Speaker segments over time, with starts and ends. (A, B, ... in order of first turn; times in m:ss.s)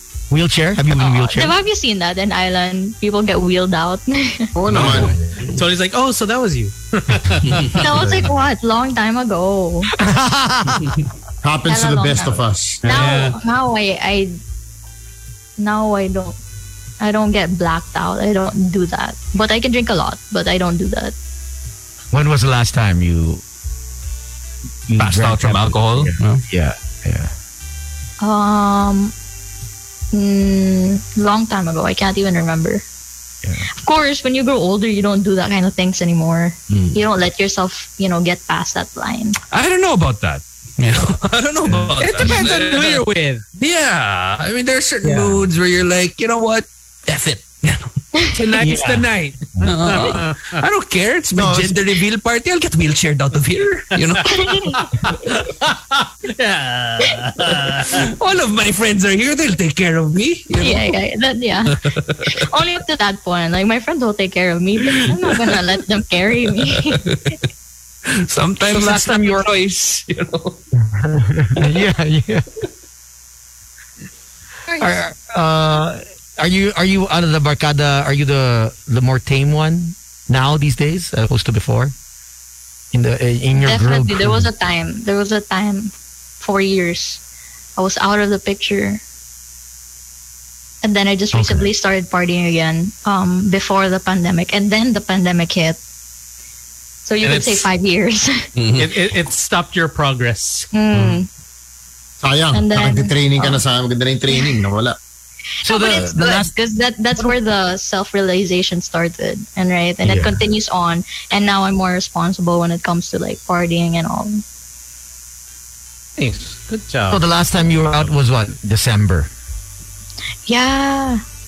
0:00.3-0:01.6 A
0:01.0-0:01.3 B
0:01.3-0:05.0 C
0:04.5-0:05.1 D
0:04.7-0:05.6 B
0:05.5-0:07.8 E
0:07.8-0:09.9 C
0:10.0-0:11.0 A
0:11.4-0:12.8 D
0:11.6-0:14.4 C
0:12.8-0:13.4 B
0:15.6-0:16.4 C
0:17.0-0:21.1 C
0:22.1-0:23.4 A
0:24.9-0:27.3 A
0:25.0-0:26.4 B
0:28.2-0:29.1 C
0:30.1-0:32.8 C
0:33.8-0:39.4 C
0:36.7-0:37.0 B
0:39.5-0:43.0 B
0:41.7-0:42.0 A
0:42.0-0:43.4 E
0:43.6-0:47.9 B
0:45.0-0:45.5 A
0:48.3-0:50.6 E
0:48.6-0:49.6 A
0:49.6-0:54.5 B
0:51.3-0:52.0 A
0:53.9-0:54.4 E
0:54.2-0:54.9 C
0:55.0-0:58.1 E
0:57.9-1:01.0 B
1:00.6-1:01.8 C
1:01.7-1:02.4 B
1:02.3-1:07.0 C
1:04.8-1:05.6 B
1:06.7-1:07.4 B
1:08.1-1:10.6 B
1:08.7-1:09.5 A
1:11.0-1:12.4 A
1:14.7-1:15.0 C
1:14.8-1:21.9 A
1:22.9-1:24.5 A
1:23.6-1:27.2 C
1:27.8-1:29.0 C
1:30.8-1:35.8 C
1:31.3-1:31.7 A
1:37.0-1:38.5 C
1:37.2-1:37.7 E
1:38.6-1:38.9 B
1:38.8-1:40.7 E
1:40.7-1:41.3 C
1:42.2-1:45.0 D
1:42.5-1:43.6 C
1:44.3-1:44.6 C
1:45.6-1:46.5 A
1:45.6-1:54.4 C
1:50.0-1:50.4 A
1:56.2-1:57.2 E
1:57.1-1:59.3 A
2:00.4-2:01.2 C